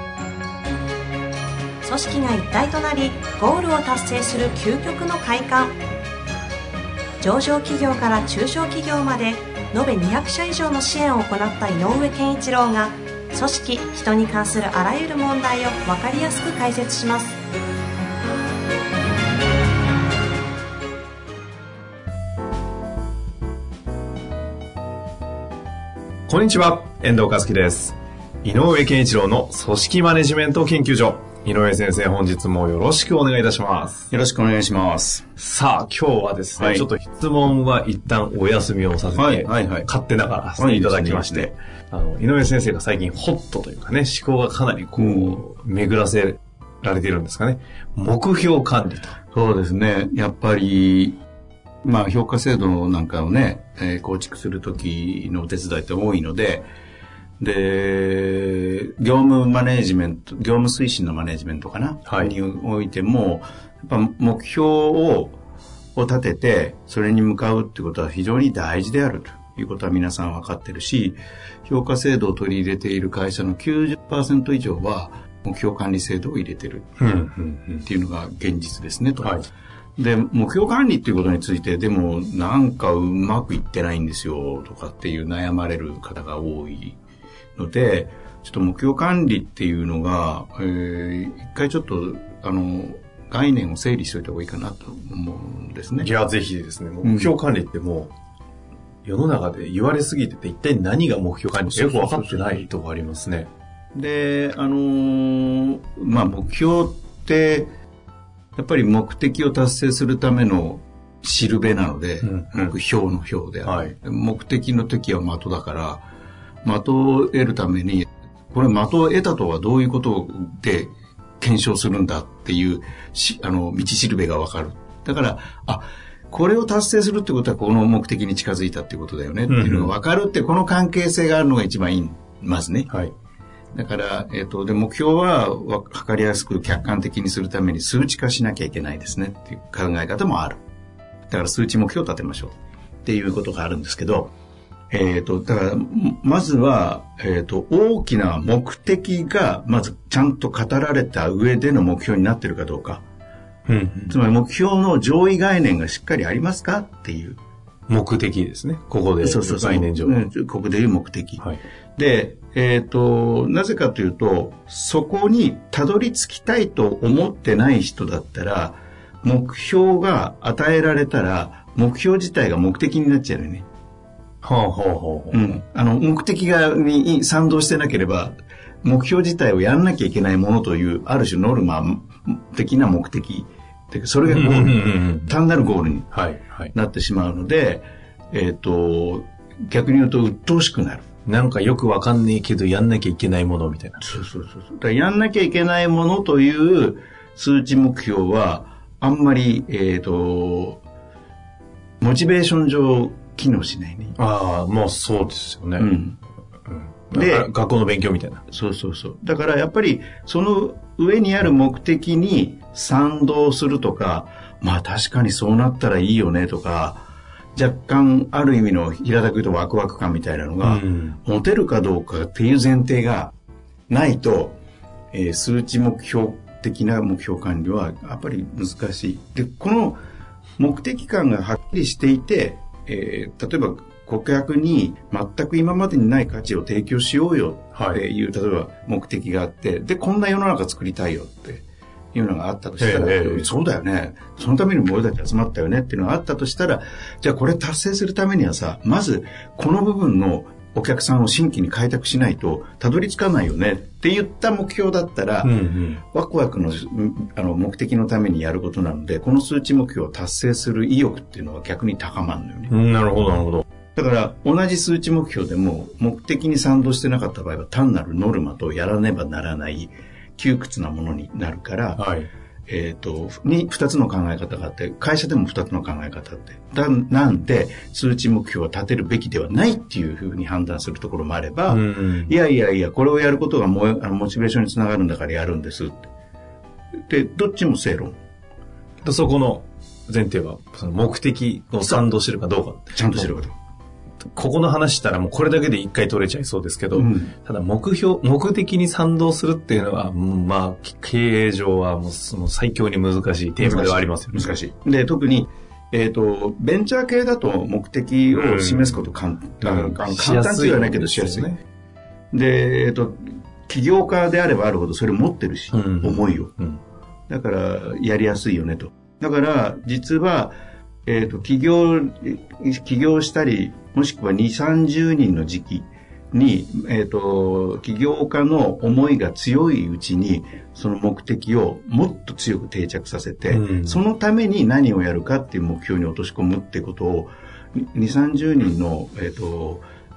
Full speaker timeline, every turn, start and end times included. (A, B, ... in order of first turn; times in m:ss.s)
0:01.8-0:05.7 A
0:07.2-0:17.3 A
0:26.3-0:34.1 B
0:34.1-0:35.3 C
0:35.4-0:49.2 B
0:36.6-0:36.9 C
0:39.1-0:39.9 C
0:40.5-0:41.5 C
0:45.0-0:45.4 C
0:49.3-0:51.2 C
0:51.8-0:56.7 C
0:57.4-1:05.4 C
1:02.0-1:02.3 B
1:05.9-1:17.0 C
1:17.0-1:17.9 B
1:17.8-1:19.4 C
1:20.0-1:27.0 C
1:27.6-1:36.1 C
1:36.0-1:38.1 B
1:37.0-1:37.3 C
1:39.0-1:43.5 B
1:41.7-1:42.6 C
1:43.9-1:47.7 C
1:48.6-1:56.0 C
1:52.2-1:52.8 B
1:53.6-1:53.9 B
1:56.6-2:12.9 C
2:09.5-2:09.9 B
2:13.7-2:20.6 C
2:21.3-2:24.3 C
2:24.9-2:33.0 C
2:33.7-2:34.2 B
2:34.1-2:37.4 C
2:37.9-2:40.3 B
2:39.2-2:41.4 C
2:42.0-2:53.7 C
2:54.4-2:55.5 B
2:55.3-3:06.1 C
3:04.2-3:05.4 B
3:06.1-3:06.7 B
3:06.7-3:11.0 C
3:11.2-3:14.0 B
3:14.0-3:20.8 C
3:22.0-3:24.2 C
3:24.2-3:25.9 B
3:25.8-3:26.2 C
3:26.7-3:28.4 B
3:27.1-3:27.5 C
3:28.5-3:43.3 C
3:40.6-3:41.2 B
3:43.9-3:44.6 C
3:45.1-3:50.0 C
3:50.6-4:15.5 C
3:57.8-3:58.0 B
4:02.8-4:03.5 B
4:15.4-4:16.0 B
4:16.1-4:22.7 C
4:22.7-4:23.6 B
4:24.0-4:32.0 C
4:32.0-4:32.3 B
4:32.7-4:46.1 C
4:41.7-4:42.3 B
4:47.1-4:48.2 C
4:49.0-4:53.3 B
4:52.9-4:53.5 C
4:54.3-5:04.6 B
4:56.9-4:57.3 C
5:03.6-5:11.5 C
5:08.3-5:09.0 B
5:09.6-5:11.6 B
5:12.3-5:16.5 C
5:15.7-5:16.8 B
5:17.3-5:39.9 C
5:33.5-5:34.0 B